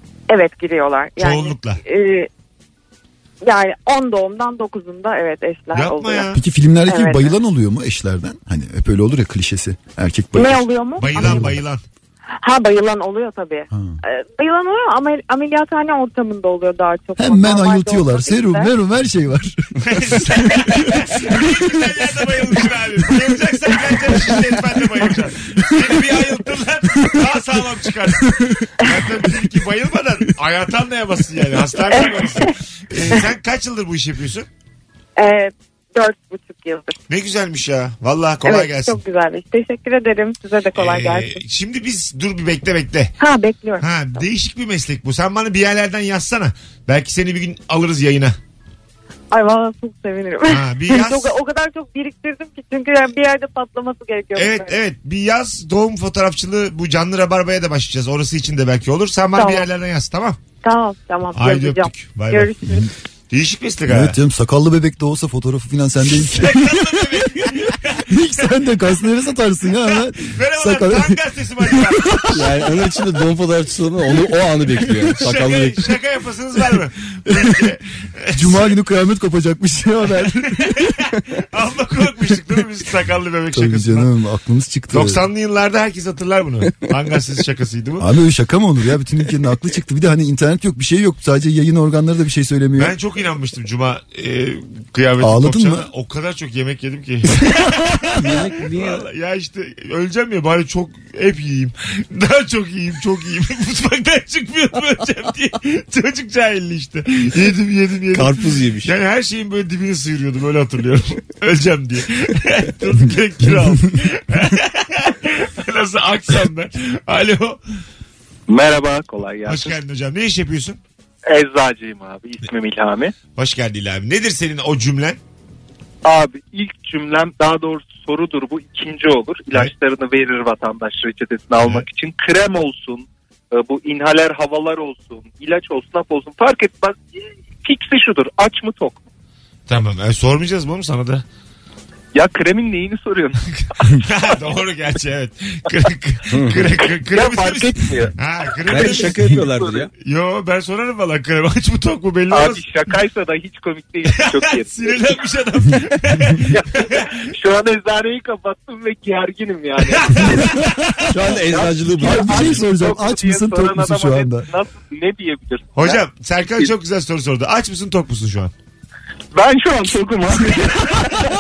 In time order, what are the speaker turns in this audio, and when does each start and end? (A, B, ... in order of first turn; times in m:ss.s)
0:00.3-0:02.3 A
0:01.2-0:01.8 B
0:03.4-0:06.3 A
0:05.7-0:06.4 B
0:06.3-0:11.6 C
0:06.8-0:07.3 A
0:10.3-0:11.5 A
0:11.0-0:11.8 B
0:12.4-0:18.7 A
0:13.7-0:14.0 C
0:17.2-0:21.6 C
0:19.8-0:34.5 B
0:25.8-0:26.1 C
0:31.9-0:32.5 A
0:35.2-0:37.0 A
0:37.1-0:39.0 B
0:38.4-0:41.4 A
0:40.7-0:43.1 B
0:43.2-0:44.2 A
0:43.8-0:48.4 B
0:49.3-0:54.7 A
0:50.4-0:51.3 B
0:54.4-1:00.4 B
0:59.4-0:59.6 A
1:00.6-1:02.9 A
1:01.3-1:02.5 B
1:03.3-1:04.2 B
1:03.9-1:07.5 C
1:06.2-1:08.1 B
1:08.0-1:12.2 C
1:09.8-1:12.8 B
1:12.3-1:15.9 D
1:15.1-1:18.7 B
1:17.3-1:17.7 C
1:18.3-1:20.9 C
1:20.2-1:24.1 B
1:23.5-1:25.2 C
1:24.9-1:28.1 B
1:28.0-1:32.9 C
1:32.8-1:57.6 B
1:35.2-1:35.9 C
1:38.1-1:39.0 D
1:48.1-1:48.9 D
1:58.5-1:59.6 E
1:59.4-2:00.8 B
2:01.3-2:03.1 E
2:03.4-2:05.2 B
2:06.0-2:13.0 E
2:11.6-2:11.8 B
2:13.5-2:17.0 E
2:17.6-2:18.9 E
2:19.7-2:21.2 B
2:22.1-2:23.3 E
2:23.6-2:29.3 B
2:26.3-2:26.6 D
2:27.2-2:28.1 E
2:28.6-2:29.9 D
2:29.6-2:29.8 E
2:30.0-2:32.7 B
2:32.3-2:34.8 E
2:34.1-2:37.1 B
2:37.4-2:40.1 E
2:39.8-2:41.0 B
2:41.1-2:42.7 D
2:41.5-2:45.9 E
2:42.0-2:44.5 C
2:45.7-2:48.5 B
2:49.3-2:51.0 E